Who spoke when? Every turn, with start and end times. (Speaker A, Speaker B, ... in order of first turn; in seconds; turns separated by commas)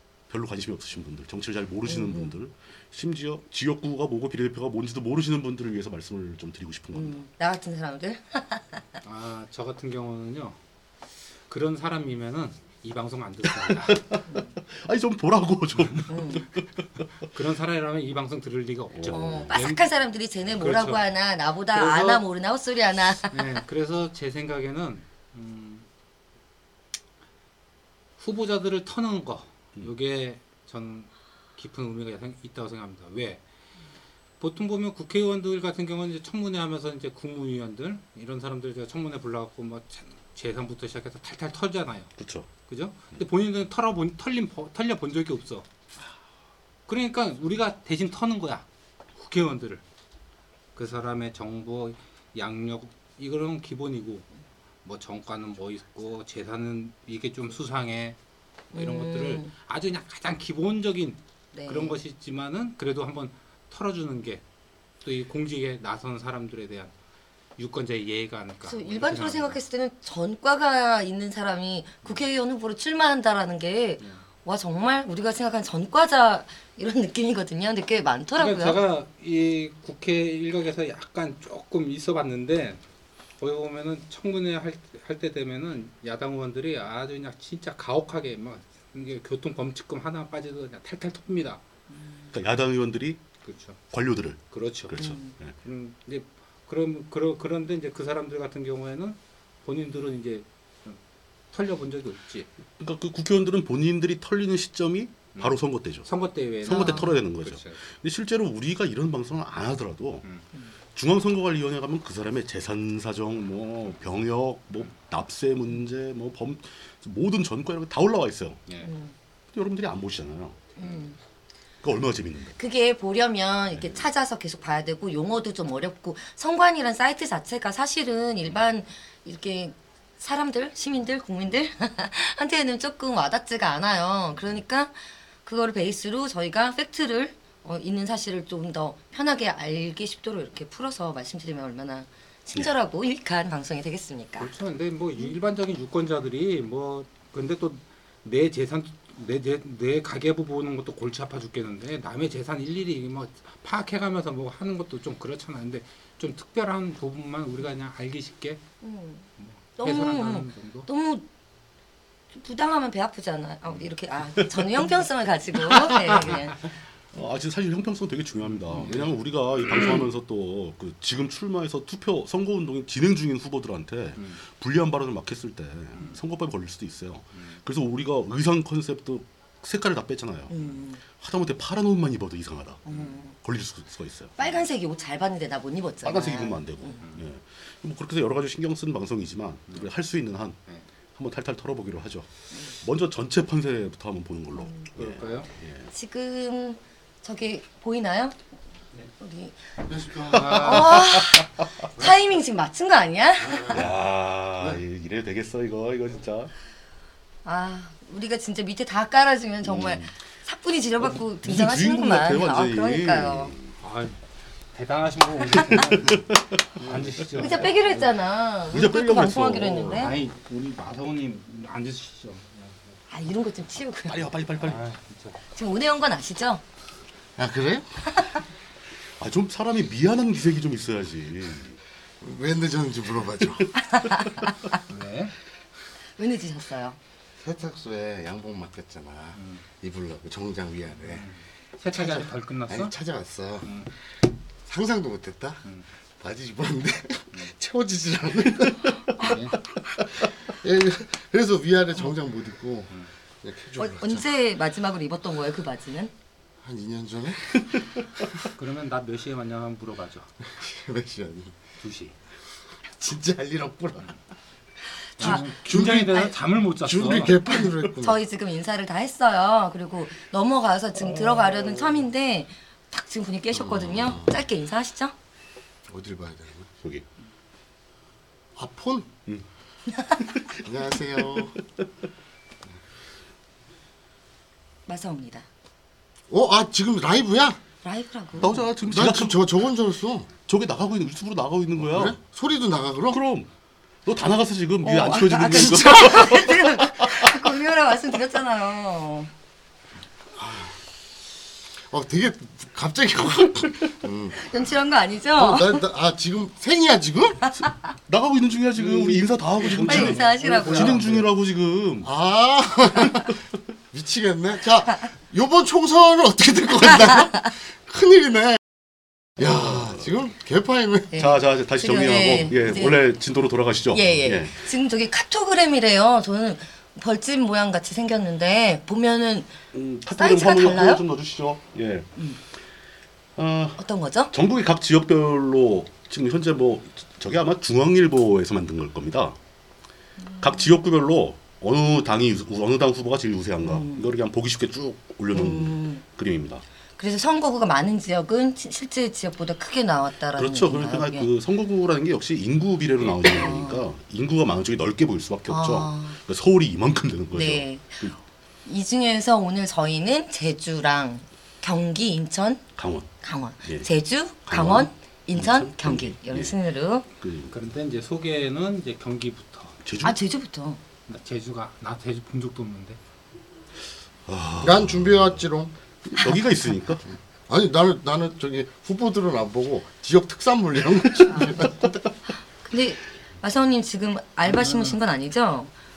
Speaker A: 0.3-7.2, Speaker B: 1.9-2.3, Speaker B: 6.9-8.8, Speaker C: 9.0-10.6, Speaker C: 11.5-14.1, Speaker A: 13.7-17.0, Speaker B: 16.1-16.5, Speaker C: 17.3-19.9, Speaker A: 18.9-19.5, Speaker B: 19.1-23.6, Speaker C: 20.5-21.0, Speaker C: 21.7-22.2, Speaker C: 23.3-25.9, Speaker C: 28.2-33.4, Speaker C: 34.4-42.1, Speaker A: 42.2-42.5, Speaker C: 42.7-45.7, Speaker C: 46.9-48.6, Speaker C: 49.2-49.8, Speaker C: 50.8-54.3, Speaker C: 54.8-58.2, Speaker B: 58.7-59.5, Speaker C: 58.7-64.4, Speaker B: 61.5-62.0, Speaker C: 65.0-66.9, Speaker C: 67.6-69.6, Speaker B: 68.7-78.8, Speaker C: 78.4-82.8, Speaker C: 83.4-91.6, Speaker A: 92.3-93.2, Speaker C: 93.4-93.8, Speaker A: 93.9-95.5, Speaker C: 94.5-95.0, Speaker B: 95.0-95.3, Speaker C: 95.6-101.0, Speaker C: 101.5-102.5, Speaker A: 102.8-106.1, Speaker C: 105.4-107.8, Speaker A: 106.6-110.2, Speaker A: 110.9-118.6, Speaker B: 118.8-119.1, Speaker A: 119.5-120.6, Speaker C: 120.8-121.0, Speaker B: 120.8-121.2, Speaker A: 121.8-122.6, Speaker B: 122.6-144.5, Speaker C: 144.4-158.6, Speaker B: 158.8-159.2, Speaker C: 159.4-160.9, Speaker B: 159.8-161.2, Speaker B: 162.3-166.6, Speaker A: 164.4-164.6, Speaker A: 165.7-166.4, Speaker A: 167.1-180.5, Speaker C: 168.5-169.1, Speaker B: 180.5-181.0, Speaker A: 181.1-182.8, Speaker B: 182.9-183.3, Speaker C: 182.9-183.1, Speaker A: 183.4-184.3, Speaker B: 184.4-187.0, Speaker A: 186.0-190.6, Speaker A: 191.1-195.9, Speaker B: 194.6-194.9, Speaker C: 195.0-195.5, Speaker B: 195.9-198.4, Speaker B: 199.2-199.6, Speaker D: 199.9-200.6, Speaker C: 200.2-201.1, Speaker A: 200.2-201.5, Speaker B: 200.5-203.8, Speaker A: 203.7-206.5, Speaker B: 207.4-213.5, Speaker A: 209.6-210.1, Speaker A: 211.1-213.7, Speaker C: 213.8-214.2, Speaker C: 214.7-216.2, Speaker A: 215.6-217.7, Speaker C: 216.8-218.0, Speaker B: 217.4-220.2, Speaker A: 218.7-220.1, Speaker C: 219.9-222.9, Speaker B: 223.1-224.3, Speaker A: 224.1-224.8, Speaker C: 224.6-225.4, Speaker B: 225.5-226.6, Speaker D: 227.4-227.9, Speaker B: 228.1-228.4, Speaker A: 229.2-231.8, Speaker D: 232.2-233.7, Speaker B: 233.8-234.8, Speaker C: 234.9-235.3, Speaker B: 236.2-237.0, Speaker D: 237.4-241.3, Speaker C: 239.4-239.6, Speaker C: 241.1-242.9, Speaker D: 241.9-243.7, Speaker D: 244.7-245.6, Speaker D: 246.2-249.4, Speaker C: 249.2-249.6, Speaker D: 250.2-254.3, Speaker B: 253.8-256.1, Speaker D: 256.6-257.7, Speaker C: 258.4-260.3, Speaker D: 260.4-261.6, Speaker C: 261.8-262.1, Speaker D: 262.9-264.1, Speaker B: 265.2-266.1, Speaker C: 265.2-267.4, Speaker D: 265.2-268.2, Speaker B: 267.9-275.1, Speaker A: 271.0-272.0, Speaker A: 273.6-274.1, Speaker D: 274.0-274.3, Speaker D: 275.9-276.7, Speaker D: 278.6-279.1, Speaker A: 280.2-280.6, Speaker D: 280.6-281.5, Speaker B: 284.9-285.5, Speaker D: 286.3-287.6, Speaker B: 287.8-288.6, Speaker A: 288.4-289.4, Speaker D: 288.8-290.3, Speaker A: 290.5-292.1, Speaker D: 291.8-293.2, Speaker A: 293.1-293.5, Speaker A: 294.1-297.5, Speaker B: 294.8-299.3, Speaker D: 295.9-296.2, Speaker D: 300.4-300.8, Speaker D: 301.9-304.4, Speaker B: 304.3-305.8, Speaker D: 305.3-307.4, Speaker A: 308.1-312.1, Speaker C: 308.8-311.1, Speaker D: 309.7-311.2, Speaker B: 309.7-311.1, Speaker D: 312.0-313.4, Speaker D: 313.9-318.6, Speaker B: 317.1-317.4, Speaker D: 319.4-321.1, Speaker A: 319.4-320.1, Speaker B: 321.1-323.0, Speaker A: 321.1-324.6, Speaker B: 323.9-329.5, Speaker A: 329.7-332.1, Speaker B: 330.1-331.0, Speaker A: 333.4-339.4, Speaker B: 333.8-334.3, Speaker A: 340.4-346.6, Speaker B: 343.6-344.1, Speaker B: 345.3-346.0, Speaker B: 347.0-351.3, Speaker A: 350.4-358.1, Speaker B: 353.0-353.8, Speaker B: 355.5-356.2, Speaker B: 357.3-358.1, Speaker B: 358.6-362.6, Speaker A: 362.8-363.1, Speaker B: 363.2-367.1, Speaker A: 364.5-366.6, Speaker A: 367.2-367.5, Speaker C: 367.5-369.8, Speaker A: 369.8-370.2, Speaker B: 370.0-370.8, Speaker C: 371.1-373.0, Speaker A: 374.2-375.4, Speaker D: 374.6-375.7, Speaker A: 376.0-377.1, Speaker D: 377.5-381.8, Speaker B: 381.3-381.7, Speaker B: 382.6-385.7, Speaker C: 384.5-384.9